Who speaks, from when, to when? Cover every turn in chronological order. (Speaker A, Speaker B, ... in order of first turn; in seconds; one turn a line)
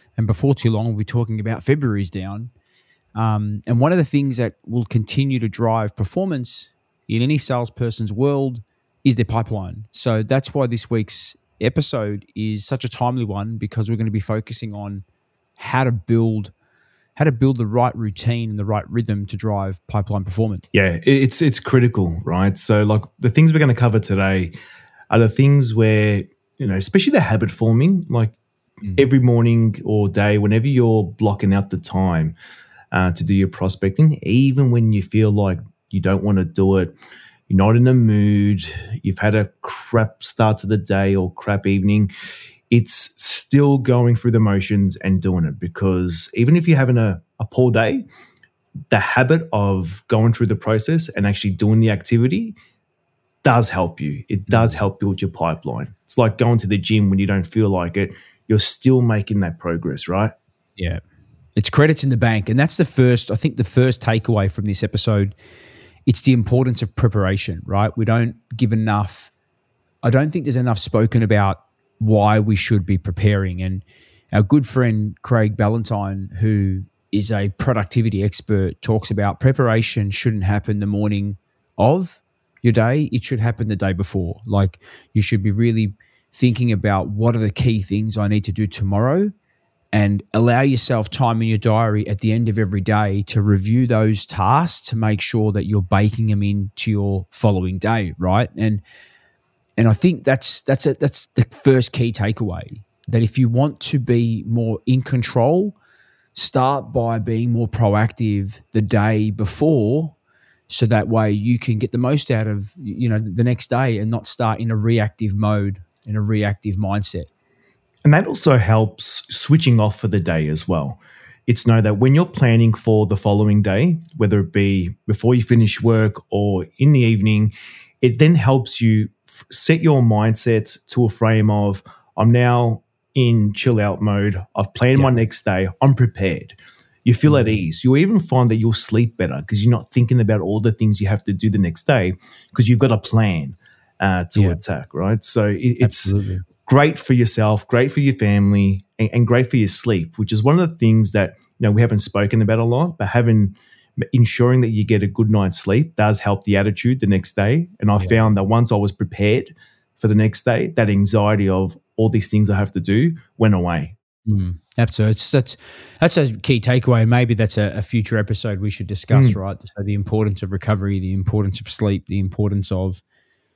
Speaker A: 0.2-2.5
Speaker A: 3.1-15.0
Speaker A: 15.6-16.5
Speaker A: 17.1-20.6
Speaker B: 20.7-24.5
Speaker B: 25.1-28.4
Speaker B: 28.9-32.4
Speaker B: 32.9-36.9
Speaker B: 37.5-42.1
Speaker B: 42.7-48.0
Speaker B: 48.9-52.6
Speaker B: 53.4-60.3
Speaker A: 54.5-54.8
Speaker A: 60.8-61.0
Speaker A: 61.6-65.3
Speaker A: 66.1-69.3
Speaker A: 70.0-89.3
Speaker A: 89.9-98.8
Speaker A: 99.8-105.8
Speaker A: 106.3-110.2
Speaker A: 110.7-117.3
Speaker B: 118.0-146.1
Speaker A: 137.2-137.5
Speaker A: 144.3-144.6
Speaker A: 145.8-146.4
Speaker B: 146.7-153.6
Speaker B: 154.1-163.9
Speaker A: 158.0-158.3
Speaker A: 164.3-173.0
Speaker B: 169.1-169.4